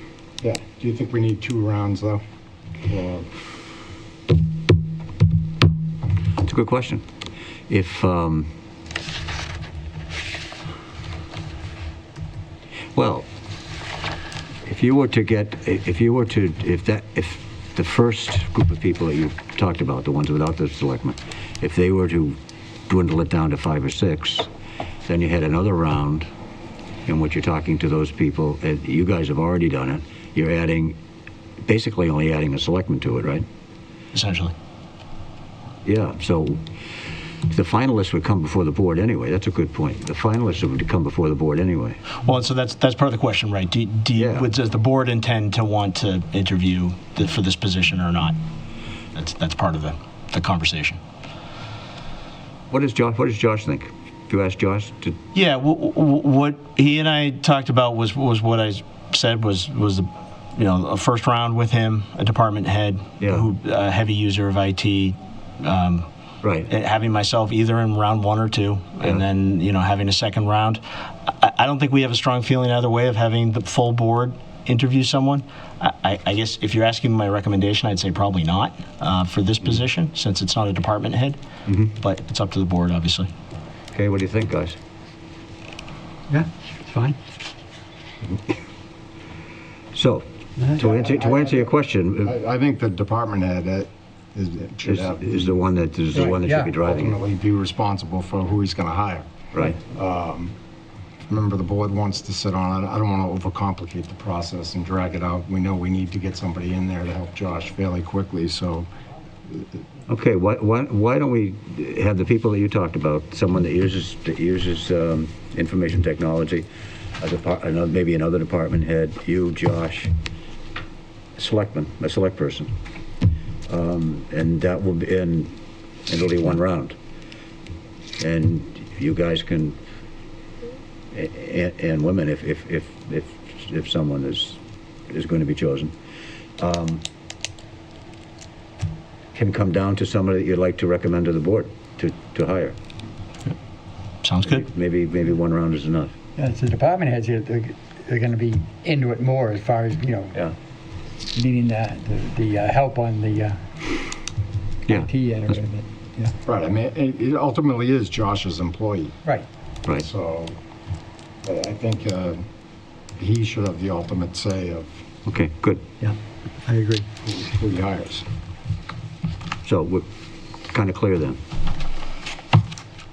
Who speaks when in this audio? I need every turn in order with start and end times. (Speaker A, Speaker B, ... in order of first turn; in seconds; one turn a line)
Speaker A: 0.4-2.2
Speaker A: 2.9-3.3
Speaker B: 6.4-7.0
Speaker B: 7.7-8.5
Speaker B: 12.9-13.3
Speaker B: 14.6-22.4
Speaker B: 22.9-24.5
Speaker B: 25.1-26.3
Speaker B: 27.1-31.0
Speaker B: 31.6-33.4
Speaker C: 34.1-34.5
Speaker B: 35.8-36.6
Speaker B: 37.5-42.0
Speaker C: 42.2-48.4
Speaker B: 44.1-44.5
Speaker C: 49.1-51.0
Speaker B: 52.7-55.2
Speaker C: 55.3-66.0
Speaker B: 63.2-63.5
Speaker B: 66.4-66.7
Speaker C: 66.7-81.4
Speaker B: 81.7-81.9
Speaker C: 81.9-83.3
Speaker B: 83.9-84.8
Speaker D: 86.3-87.2
Speaker B: 89.9-92.3
Speaker D: 90.6-91.0
Speaker A: 90.9-91.7
Speaker A: 92.2-95.5
Speaker B: 94.8-97.1
Speaker D: 96.1-96.7
Speaker A: 96.8-100.5
Speaker A: 101.3-108.9
Speaker A: 109.5-109.8
Speaker B: 110.1-116.7
Speaker B: 117.2-120.1
Speaker B: 121.4-122.7
Speaker B: 123.7-127.0
Speaker B: 128.2-129.8
Speaker B: 131.1-135.9
Speaker B: 136.6-137.0
Speaker B: 139.3-142.8
Speaker C: 144.2-144.6
Speaker B: 144.4-146.1
Speaker D: 146.3-150.3
Speaker D: 151.3-153.6
Speaker B: 154.9-155.5
Speaker D: 154.9-156.3
Speaker A: 156.4-159.2
Speaker A: 160.0-160.6
Speaker A: 161.4-162.4
Speaker A: 163.2-165.0
Speaker B: 165.2-165.8
Speaker D: 166.0-167.1
Speaker A: 167.2-168.3
Speaker B: 169.6-170.1
Speaker B: 170.7-171.4